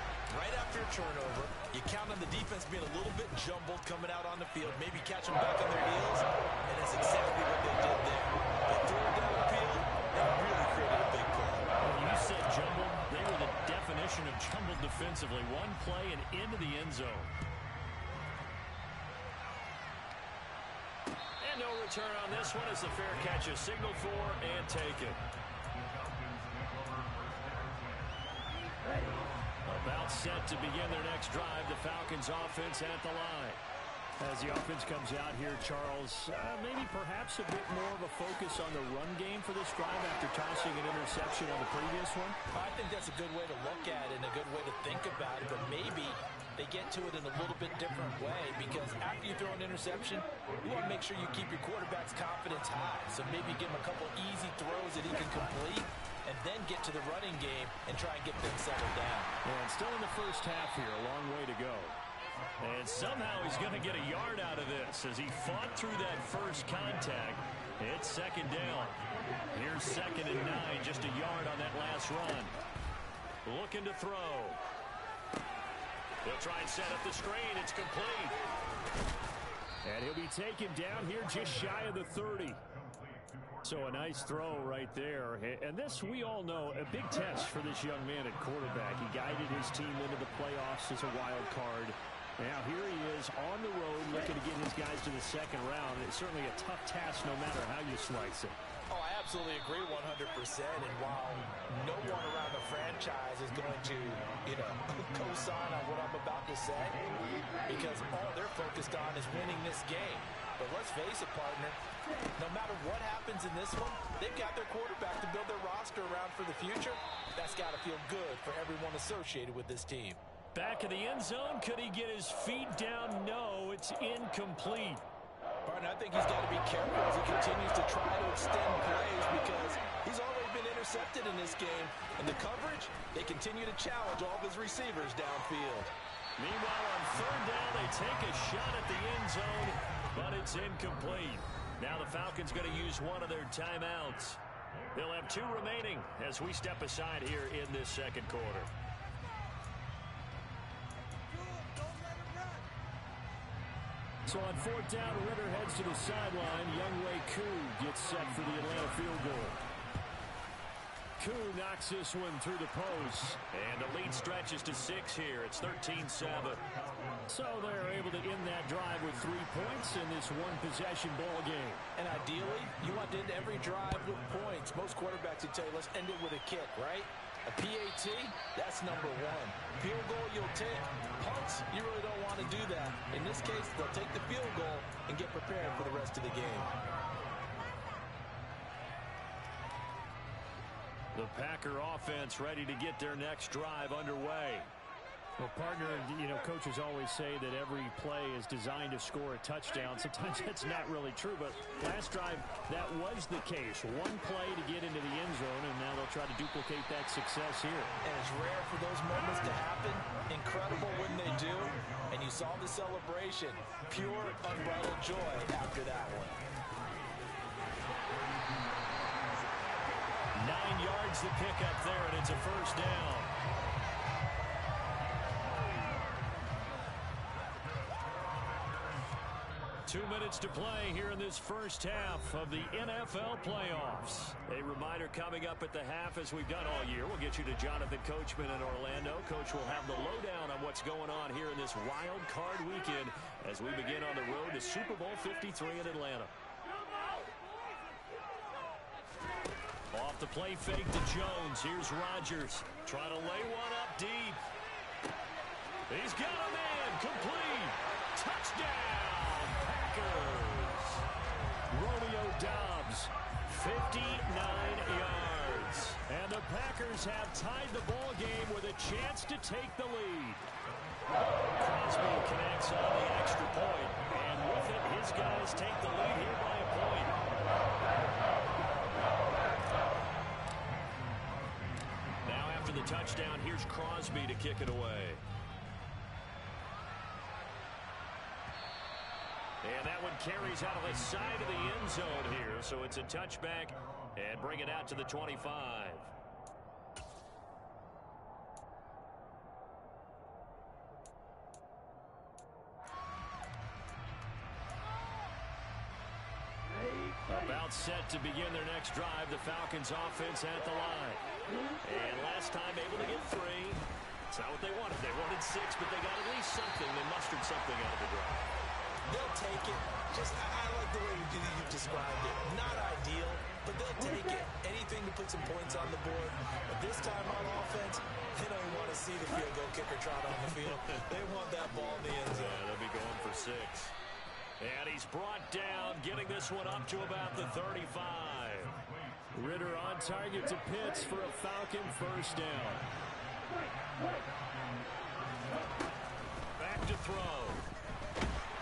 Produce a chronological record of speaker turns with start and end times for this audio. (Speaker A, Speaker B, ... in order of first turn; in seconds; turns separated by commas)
Speaker A: 0.3-11.7, Speaker B: 11.8-17.3, Speaker B: 21.4-25.2, Speaker B: 29.6-33.6, Speaker B: 34.2-42.4, Speaker A: 42.5-59.3, Speaker B: 59.4-62.0, Speaker B: 62.6-72.5, Speaker B: 73.5-74.6, Speaker B: 76.2-78.4, Speaker B: 79.8-82.6, Speaker B: 83.6-98.6, Speaker A: 98.9-107.0, Speaker A: 107.7-111.8, Speaker A: 112.4-120.2, Speaker B: 120.5-125.0, Speaker A: 125.6-135.9, Speaker B: 136.4-144.4, Speaker B: 144.9-148.7, Speaker B: 154.2-159.6, Speaker B: 161.2-166.6, Speaker B: 167.3-171.9, Speaker A: 171.9-186.7, Speaker B: 191.1-194.7, Speaker B: 195.4-207.9, Speaker A: 208.0-216.4, Speaker B: 220.4-223.3, Speaker B: 229.9-246.3, Speaker B: 249.9-254.4, Speaker B: 255.9-261.1, Speaker B: 261.7-270.5, Speaker B: 271.1-277.1, Speaker B: 282.2-285.2, Speaker B: 289.6-296.1, Speaker B: 307.3-311.2, Speaker B: 311.8-318.5, Speaker A: 319.1-332.6, Speaker B: 330.7-331.1, Speaker B: 332.3-333.9, Speaker B: 334.6-338.8, Speaker B: 339.3-342.8, Speaker B: 346.6-347.7